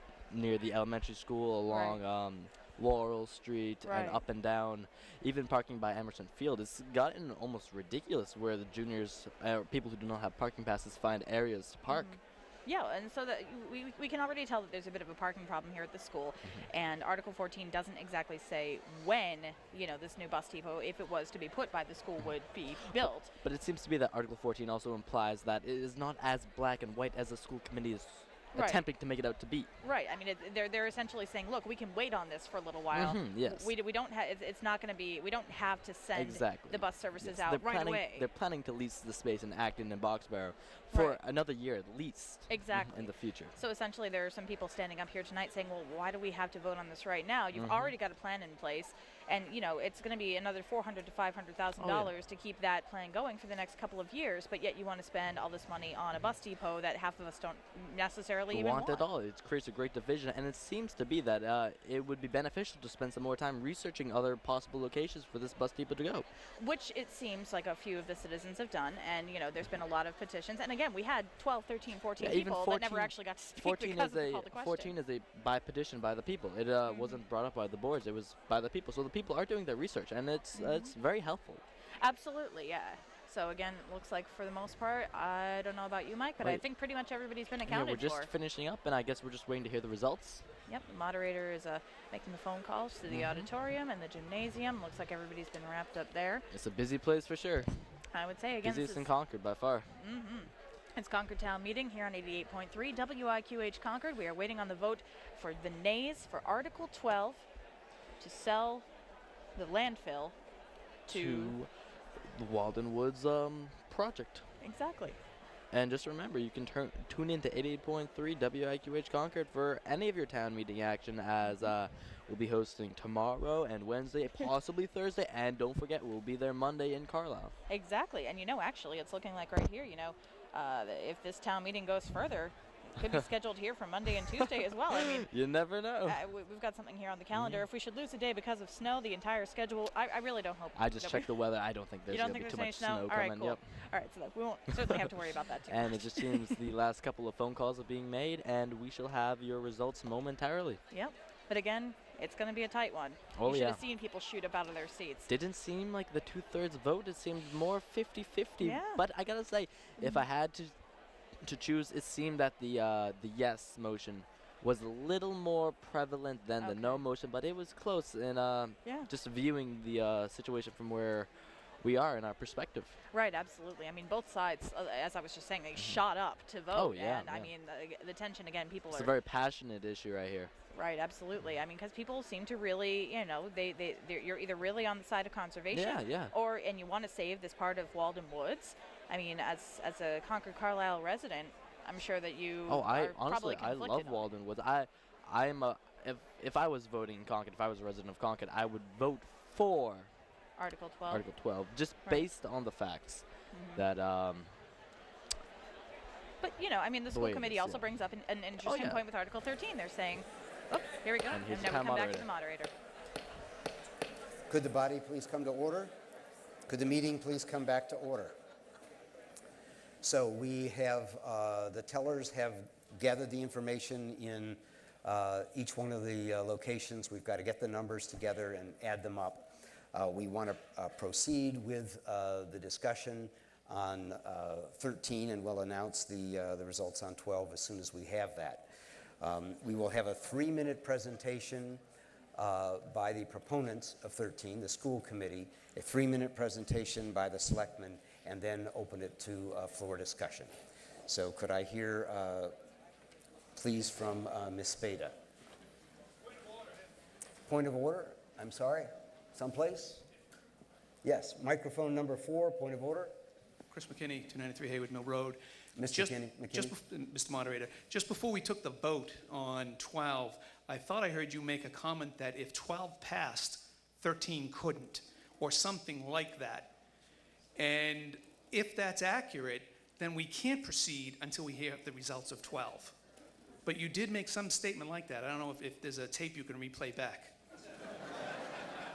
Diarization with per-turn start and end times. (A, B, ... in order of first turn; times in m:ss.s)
0:00.3-0:12.1 A
0:01.7-0:02.0 B
0:03.8-0:04.2 B
0:11.9-0:23.4 B
0:23.4-0:29.7 A
0:28.5-0:28.8 B
0:29.8-0:38.3 B
0:32.9-0:33.7 A
0:36.1-0:43.5 A
0:40.9-0:41.2 B
0:42.5-0:59.0 B
0:47.5-0:47.9 A
0:51.8-0:52.1 A
0:58.5-1:06.2 A
1:06.6-1:14.9 B
1:12.2-1:21.6 A
1:16.8-1:17.2 B
1:20.5-1:20.9 B
1:22.0-1:28.3 B
1:27.7-1:30.4 A
1:30.6-1:36.4 B
1:33.1-1:33.5 A
1:36.5-1:37.7 A
1:38.1-1:39.1 B
1:38.6-1:39.8 A
1:40.0-1:47.4 B
1:48.2-1:48.8 B
1:49.5-1:50.3 B
1:51.1-1:51.5 B
1:51.1-1:54.4 A
1:54.6-1:55.2 B
1:55.7-2:07.5 A
2:01.4-2:01.7 B
2:07.7-2:15.3 B
2:14.4-2:16.2 A
2:16.0-2:21.3 B
2:17.3-2:17.6 A
2:20.7-2:23.6 A
2:22.1-2:26.6 B
2:25.7-2:30.8 A
2:30.9-2:35.3 B
2:33.3-2:33.8 A
2:35.3-2:40.7 A
2:38.6-2:39.0 B
2:40.0-2:40.2 B
2:41.4-2:51.3 A
2:46.6-2:47.0 B
2:48.8-2:49.1 B
2:51.8-2:52.9 A
2:53.1-2:59.1 B
2:56.7-2:57.5 A
2:58.9-3:00.5 A
3:00.7-3:14.2 B
3:05.7-3:06.3 A
3:12.7-3:20.1 A
3:20.6-3:21.2 B
3:21.1-3:23.2 A
3:23.5-3:23.8 B
3:23.8-3:24.5 A
3:26.4-3:32.7 B
3:27.1-3:27.9 A
3:28.6-3:29.0 A
3:31.3-3:32.3 A
3:34.5-3:35.9 C
3:36.7-3:38.3 C
3:40.0-4:01.8 C
4:02.3-4:10.5 C
4:11.0-4:12.5 C
4:13.5-4:15.1 C
4:17.4-4:20.0 C
4:21.0-4:23.1 C
4:23.7-4:36.7 D
4:25.8-4:26.7 C
4:37.6-4:43.0 D
4:43.6-4:47.3 D